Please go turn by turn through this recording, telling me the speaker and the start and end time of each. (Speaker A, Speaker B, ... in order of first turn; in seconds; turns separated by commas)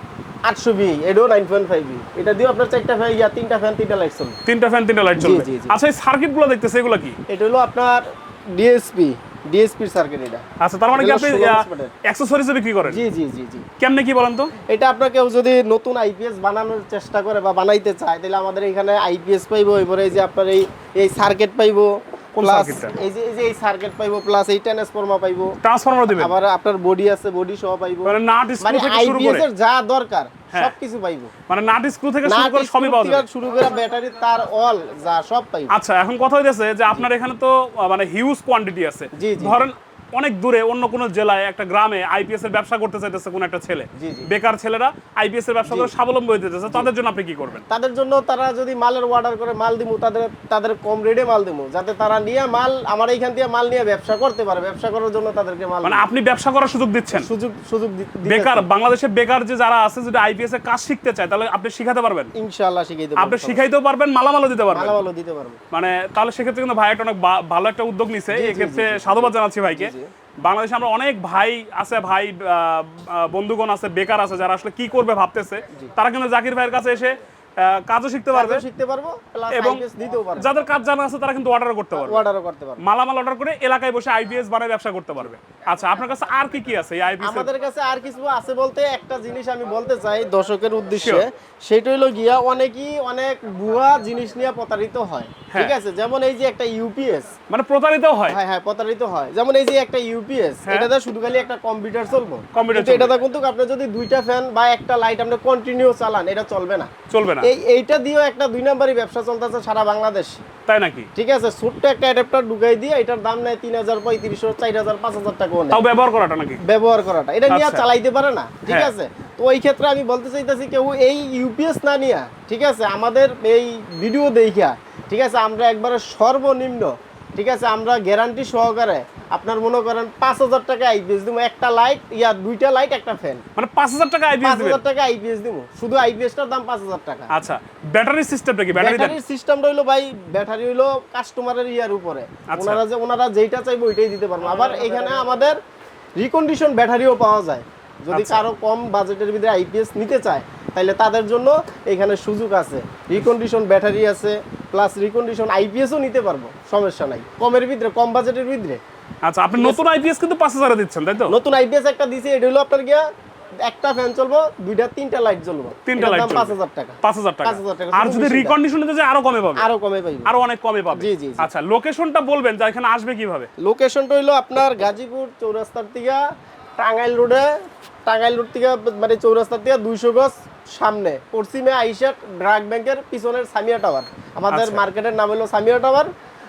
Speaker A: 0.4-4.4, Speaker B: 4.5-7.2, Speaker A: 5.2-5.7, Speaker A: 7.3-11.9, Speaker B: 10.6-13.0, Speaker A: 12.8-13.7, Speaker B: 13.8-14.5, Speaker A: 14.6-25.6, Speaker B: 22.4-22.9, Speaker B: 25.6-26.3, Speaker A: 26.1-31.3, Speaker B: 28.0-29.4, Speaker B: 31.5-33.2, Speaker A: 32.2-35.7, Speaker B: 35.7-47.6, Speaker A: 39.1-39.6, Speaker A: 44.0-44.3, Speaker A: 45.6-45.9, Speaker A: 47.7-56.1, Speaker B: 55.8-57.3, Speaker A: 57.1-58.6, Speaker B: 58.2-62.3, Speaker A: 62.4-63.6, Speaker B: 63.2-65.0, Speaker A: 64.7-65.6, Speaker B: 65.7-78.6, Speaker A: 68.3-70.1, Speaker A: 78.3-80.5, Speaker B: 79.5-79.8, Speaker B: 80.4-82.2, Speaker A: 81.9-82.8, Speaker B: 82.8-87.5, Speaker A: 87.2-97.3, Speaker B: 97.5-98.4, Speaker A: 98.3-110.4, Speaker B: 102.5-103.1, Speaker B: 107.1-107.5, Speaker B: 110.7-111.1, Speaker A: 111.2-115.8, Speaker B: 115.7-116.6, Speaker A: 116.6-133.4, Speaker B: 117.5-117.8, Speaker B: 118.7-118.9, Speaker B: 133.6-134.8, Speaker A: 134.4-137.3, Speaker B: 137.3-139.2, Speaker A: 138.7-145.6, Speaker B: 142.5-142.8, Speaker A: 146.2-158.8, Speaker B: 148.1-148.4, Speaker B: 159.2-161.3, Speaker A: 159.6-159.8, Speaker A: 161.3-163.0, Speaker A: 163.7-168.6, Speaker B: 165.8-169.7, Speaker A: 169.6-170.3, Speaker B: 170.2-173.5, Speaker A: 170.9-171.5, Speaker A: 173.6-176.2, Speaker A: 176.8-177.5, Speaker A: 178.1-186.1, Speaker B: 184.5-184.8